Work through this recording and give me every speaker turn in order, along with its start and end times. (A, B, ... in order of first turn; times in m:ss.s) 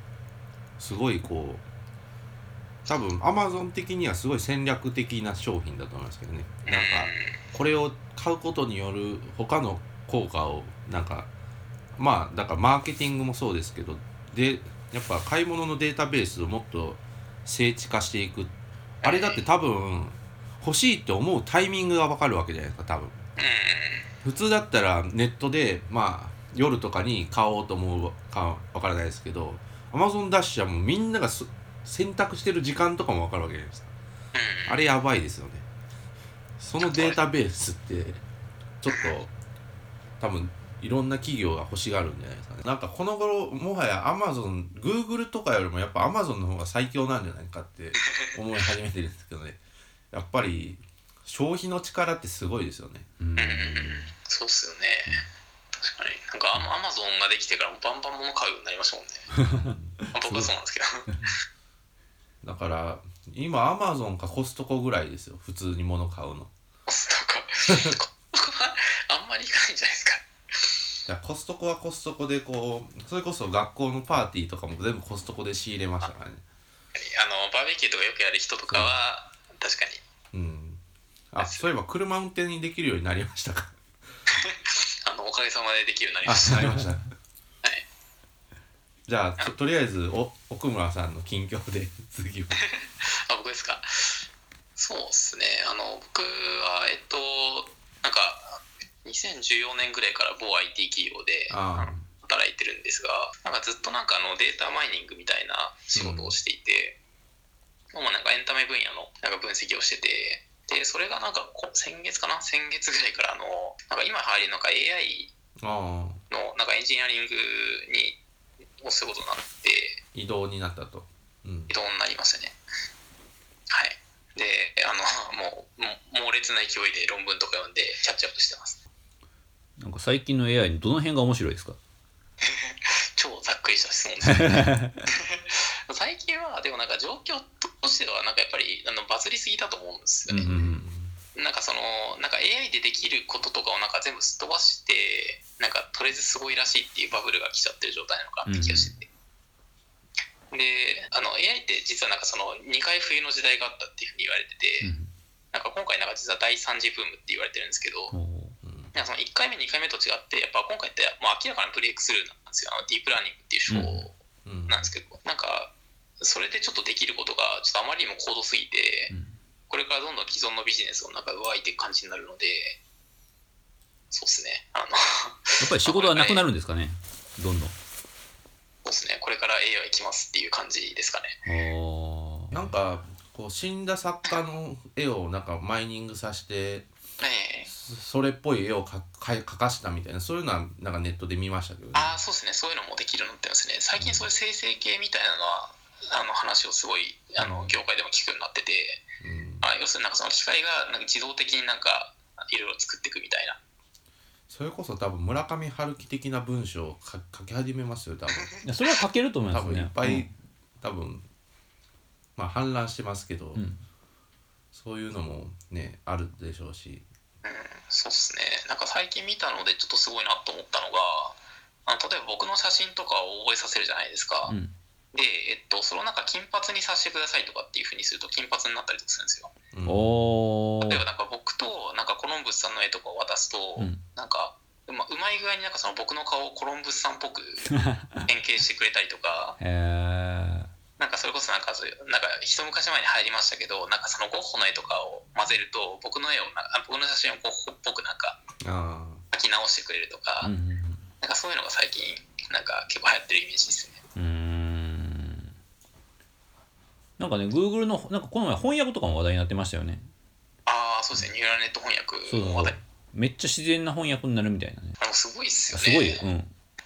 0:00.8-0:01.6 A
0:02.9-0:11.3 A
0:06.7-0:07.4 B
0:12.0-0:18.5 A
0:19.0-0:19.4 B
0:19.0-0:23.2 A
0:23.4-0:24.1 B
0:24.2-0:33.9 A
0:34.3-0:34.8 B
0:34.7-0:35.6 A
0:36.6-0:38.2 A
0:36.8-0:37.2 B
0:38.8-0:39.3 A
0:40.2-0:49.6 A
0:50.1-0:53.1 A
0:53.2-0:54.1 C
0:53.4-0:55.2 B
0:55.8-0:59.3 B
0:59.4-1:00.5 C
0:59.4-1:00.0 A
1:00.1-1:01.4 B
1:02.4-1:06.5 A
1:06.9-1:10.8 B
1:07.7-1:08.0 A
1:11.1-1:16.4 A
1:17.0-1:20.0 B
1:20.3-1:20.8 A
1:21.3-1:23.8 A
1:21.4-1:21.7 B
1:24.3-1:26.8 B
1:26.2-1:27.0 A
1:29.1-1:32.6 A
1:32.6-1:34.2 B
1:34.8-1:47.0 B
1:41.5-1:42.0 A
1:46.0-1:46.4 A
1:47.9-1:55.3 B
1:55.6-1:56.2 A
1:56.3-1:58.2 B
1:58.8-2:00.0 B
2:00.1-2:01.7 A
2:01.7-2:02.6 B
2:03.7-2:08.8 B
2:09.8-2:11.8 C
2:12.4-2:20.5 B
2:14.3-2:15.0 C
2:20.3-2:20.8 C
2:20.4-2:21.2 A
2:21.4-2:29.1 B
2:28.5-2:29.0 C
2:30.5-2:34.9 B
2:34.8-2:35.1 C
2:35.5-2:38.1 B
2:38.1-2:38.6 C
2:38.6-2:39.0 A
2:39.0-2:44.2 B
2:43.7-2:44.0 C
2:44.4-2:44.9 A
2:44.7-2:49.1 B
2:49.1-2:49.4 C
2:49.7-2:52.8 B
2:54.1-2:56.5 B
2:55.6-2:57.8 C
2:58.8-3:01.4 B
3:01.5-3:02.7 C
3:02.5-3:06.9 A
3:07.2-3:07.7 B
3:07.7-3:12.2 A
3:11.9-3:19.0 B
3:14.0-3:14.2 A
3:17.4-3:17.7 A
3:19.2-3:19.7 A
3:19.6-3:23.6 B
3:24.5-3:28.5 A
3:28.6-3:30.3 C
3:29.5-3:30.3 A
3:30.8-3:31.2 A
3:32.4-3:33.6 A
3:33.6-3:33.8 C
3:34.7-3:37.0 A
3:37.4-3:44.6 B
3:44.5-3:44.7 C
3:45.1-3:49.5 B
3:49.7-3:50.2 A
3:49.8-3:51.0 C
3:50.8-3:57.7 B
3:57.7-3:58.2 C
3:58.3-3:59.6 B
3:59.6-4:00.7 C
4:01.0-4:08.4 B
4:08.6-4:09.2 A
4:09.3-4:10.5 B
4:10.4-4:11.0 C
4:11.2-4:14.0 B
4:14.2-4:15.6 C
4:17.2-4:20.1 C
4:20.7-4:22.8 B
4:22.3-4:25.0 C
4:25.0-4:26.2 B
4:25.7-4:26.5 C